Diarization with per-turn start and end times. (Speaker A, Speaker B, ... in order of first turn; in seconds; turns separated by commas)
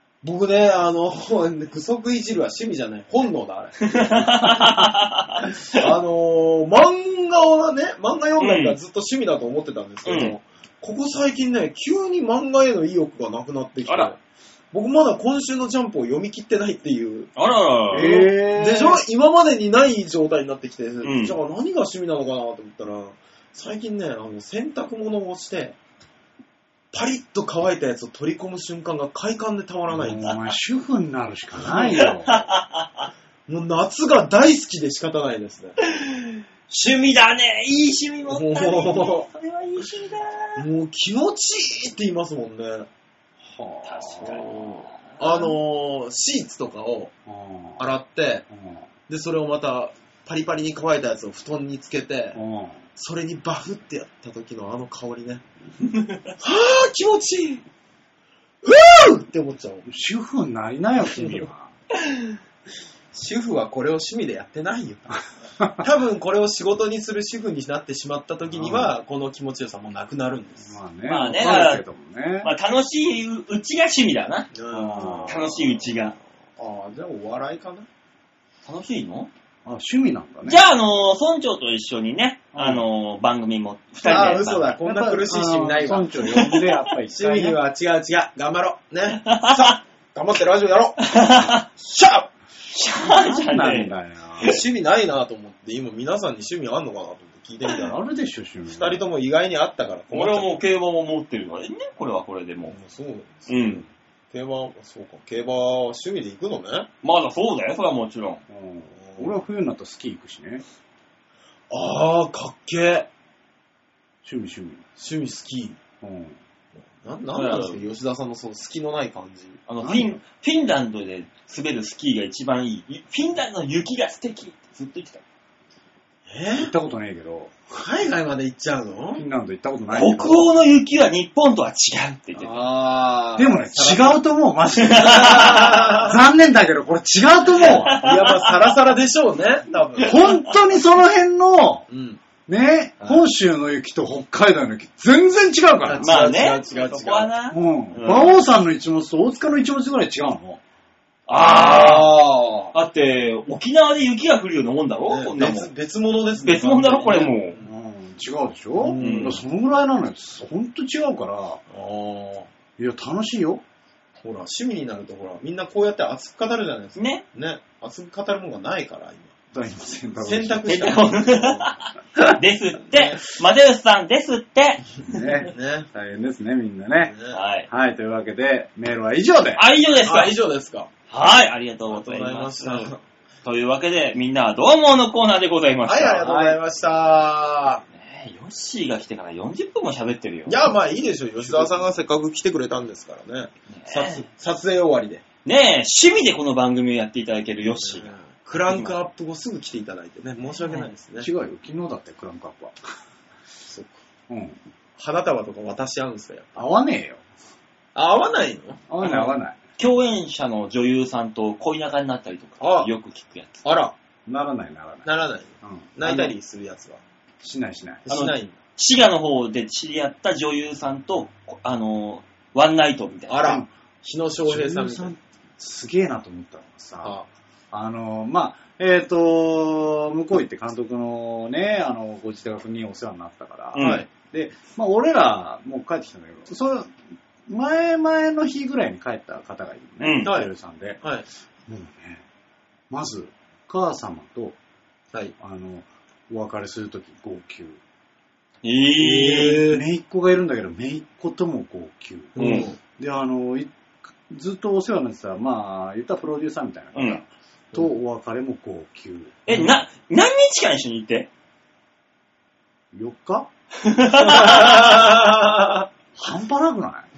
Speaker A: 0.2-4.7, Speaker B: 3.9-5.9, Speaker A: 5.6-14.2, Speaker B: 8.4-8.8, Speaker B: 10.1-10.3, Speaker B: 13.8-14.1, Speaker A: 14.7-17.3, Speaker B: 17.4-18.2, Speaker C: 17.9-19.0, Speaker A: 17.9-25.8, Speaker B: 21.0-21.4, Speaker A: 26.9-30.5, Speaker C: 29.9-32.4, Speaker A: 31.7-32.0, Speaker B: 32.0-33.1, Speaker A: 33.5-35.8, Speaker B: 35.9-40.6, Speaker A: 38.3-39.3, Speaker A: 40.6-42.9, Speaker C: 43.4-44.9, Speaker B: 43.9-45.1, Speaker A: 44.3-47.1, Speaker C: 47.3-47.9, Speaker A: 47.8-48.4, Speaker C: 48.5-48.9, Speaker A: 49.1-52.4, Speaker C: 52.4-52.8, Speaker A: 53.0-55.4, Speaker B: 55.9-56.3, Speaker A: 56.4-57.6, Speaker A: 58.6-59.9, Speaker C: 59.9-61.7, Speaker A: 61.1-61.4, Speaker A: 63.1-65.1, Speaker A: 65.8-70.8, Speaker C: 68.6-68.9, Speaker C: 70.7-72.5, Speaker B: 71.1-71.8, Speaker B: 72.4-74.5, Speaker A: 74.5-77.9, Speaker C: 74.7-75.4, Speaker B: 75.3-76.1, Speaker B: 78.6-79.3, Speaker C: 79.6-80.6, Speaker B: 80.5-84.7, Speaker C: 82.5-82.8, Speaker A: 84.0-86.4, Speaker C: 84.1-87.6, Speaker B: 86.3-86.7, Speaker A: 87.1-92.3, Speaker B: 89.1-89.8, Speaker B: 91.0-91.6, Speaker B: 92.7-94.6, Speaker C: 93.0-94.6, Speaker A: 94.4-98.0, Speaker C: 97.8-99.0, Speaker A: 98.7-100.5, Speaker B: 100.1-102.8, Speaker A: 102.7-106.9, Speaker B: 103.5-103.8, Speaker B: 107.0-108.4, Speaker C: 108.5-110.6, Speaker A: 108.9-109.4, Speaker A: 111.7-113.1, Speaker C: 114.2-114.8, Speaker A: 115.0-115.8, Speaker C: 116.0-116.4, Speaker A: 116.8-119.6, Speaker B: 117.3-117.8, Speaker B: 119.7-125.2, Speaker C: 119.8-120.2, Speaker A: 126.3-126.7, Speaker C: 126.6-127.6, Speaker A: 127.7-129.2, Speaker C: 129.2-130.5, Speaker B: 129.9-132.6, Speaker A: 132.4-134.2, Speaker C: 133.4-138.0, Speaker B: 134.8-135.9, Speaker A: 134.9-136.3, Speaker B: 137.6-138.7, Speaker A: 137.9-140.4, Speaker C: 140.0-141.8, Speaker A: 141.9-142.2, Speaker C: 142.4-146.1, Speaker A: 145.8-147.3, Speaker B: 146.0-148.4, Speaker C: 147.5-150.6, Speaker B: 151.3-152.2, Speaker A: 151.4-152.7, Speaker B: 152.7-155.7, Speaker A: 155.1-157.7, Speaker B: 156.4-157.6, Speaker C: 157.6-161.6, Speaker A: 158.8-159.4, Speaker B: 159.0-159.4, Speaker A: 161.7-162.5, Speaker C: 162.8-163.6, Speaker A: 164.2-169.3, Speaker B: 166.9-167.2, Speaker C: 169.5-171.0, Speaker A: 170.2-171.7, Speaker B: 170.7-174.8, Speaker A: 172.8-173.2, Speaker C: 175.1-177.2, Speaker A: 175.5-175.9, Speaker A: 177.1-177.4, Speaker B: 177.3-177.7, Speaker C: 177.7-179.6, Speaker B: 179.6-180.3, Speaker A: 180.0-180.9, Speaker B: 181.1-182.9, Speaker A: 181.9-183.0, Speaker B: 183.4-186.3, Speaker A: 185.8-187.8, Speaker C: 186.2-186.6, Speaker B: 187.9-190.6, Speaker A: 190.4-195.2, Speaker B: 193.7-194.3, Speaker B: 195.4-198.2, Speaker A: 197.9-201.3, Speaker B: 198.7-198.9, Speaker C: 201.2-202.8, Speaker A: 203.7-204.0, Speaker C: 204.3-204.6, Speaker A: 205.0-206.6, Speaker C: 206.6-207.2, Speaker A: 207.9-208.8, Speaker C: 208.9-209.6, Speaker B: 209.0-213.6, Speaker A: 212.6-212.9, Speaker A: 213.6-213.9, Speaker C: 214.3-215.1, Speaker A: 215.1-217.0, Speaker C: 215.6-216.3, Speaker C: 217.4-218.0, Speaker A: 218.1-218.6, Speaker B: 218.1-223.4, Speaker A: 223.3-225.1, Speaker C: 223.4-223.7, Speaker C: 224.4-227.1, Speaker A: 227.0-227.3, Speaker C: 227.7-236.9, Speaker B: 233.7-234.1, Speaker A: 233.8-234.1, Speaker C: 237.5-241.0, Speaker B: 240.0-240.3, Speaker A: 240.2-240.5, Speaker C: 241.7-242.2, Speaker C: 242.9-244.6, Speaker C: 245.4-247.8, Speaker B: 248.6-249.6, Speaker C: 249.0-253.7, Speaker A: 249.1-249.8, Speaker A: 252.3-252.8, Speaker B: 252.4-252.7, Speaker C: 254.3-259.8, Speaker B: 256.9-257.2, Speaker B: 259.4-261.3, Speaker C: 262.9-263.5, Speaker B: 263.8-264.8, Speaker A: 264.2-265.9, Speaker C: 266.1-267.1